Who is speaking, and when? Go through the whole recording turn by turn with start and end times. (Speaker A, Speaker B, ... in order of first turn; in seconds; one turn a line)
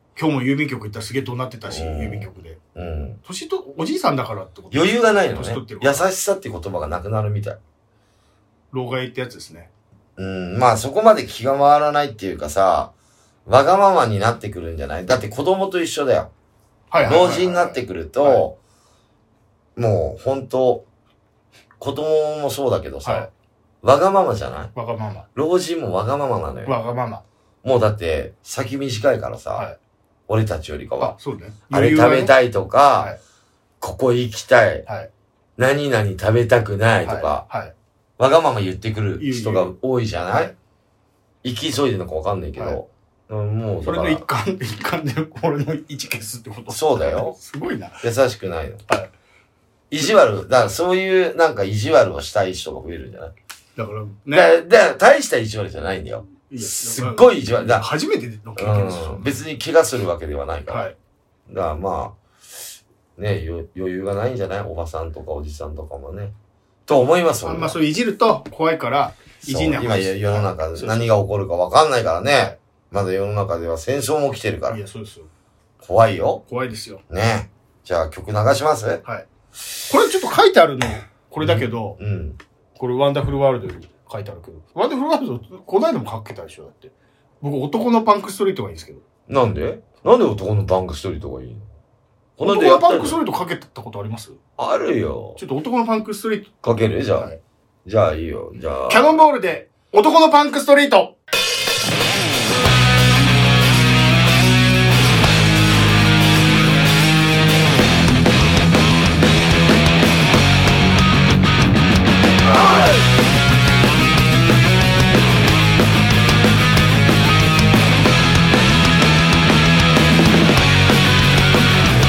Speaker A: 0.2-2.6
Speaker B: 1.7-3.2
Speaker A: 3.2-6.1
Speaker B: 4.7-7.6
Speaker A: 8.7-9.7
Speaker B: 10.2-12.9
Speaker B: 13.5-16.3
Speaker A: 16.9-18.4
Speaker B: 17.0-18.6
Speaker B: 19.8-20.9
Speaker B: 21.8-23.3
Speaker A: 23.0-23.3
Speaker B: 23.8-24.7
Speaker A: 24.8-25.3
Speaker B: 25.4-26.7
Speaker A: 26.7-27.2
Speaker B: 27.6-29.7
Speaker B: 30.3-31.1
Speaker A: 31.0-32.3
Speaker B: 31.7-33.1
Speaker B: 33.8-34.9
Speaker B: 35.6-37.5
Speaker A: 37.0-37.7
Speaker B: 38.2-40.5
Speaker A: 39.2-39.7
Speaker B: 41.4-44.2
Speaker A: 43.8-48.1
Speaker B: 46.7-47.4
Speaker B: 48.0-48.8
Speaker B: 49.9-53.3
Speaker A: 53.8-54.5
Speaker B: 54.3-57.9
Speaker A: 56.5-59.3
Speaker B: 58.6-60.9
Speaker A: 60.7-61.0
Speaker B: 61.5-62.2
Speaker B: 63.2-66.3
Speaker B: 66.9-67.8
Speaker A: 67.4-71.1
Speaker B: 69.5-74.8
Speaker A: 74.7-75.3
Speaker B: 75.8-76.4
Speaker A: 76.5-77.0
Speaker B: 77.1-79.0
Speaker A: 79.9-82.0
Speaker B: 81.4-82.4
Speaker A: 82.8-89.0
Speaker B: 89.3-91.7
Speaker B: 92.4-93.2
Speaker A: 92.4-94.4
Speaker B: 94.6-95.4
Speaker A: 95.4-96.6
Speaker B: 96.6-97.3
Speaker B: 97.8-99.2
Speaker A: 98.9-101.2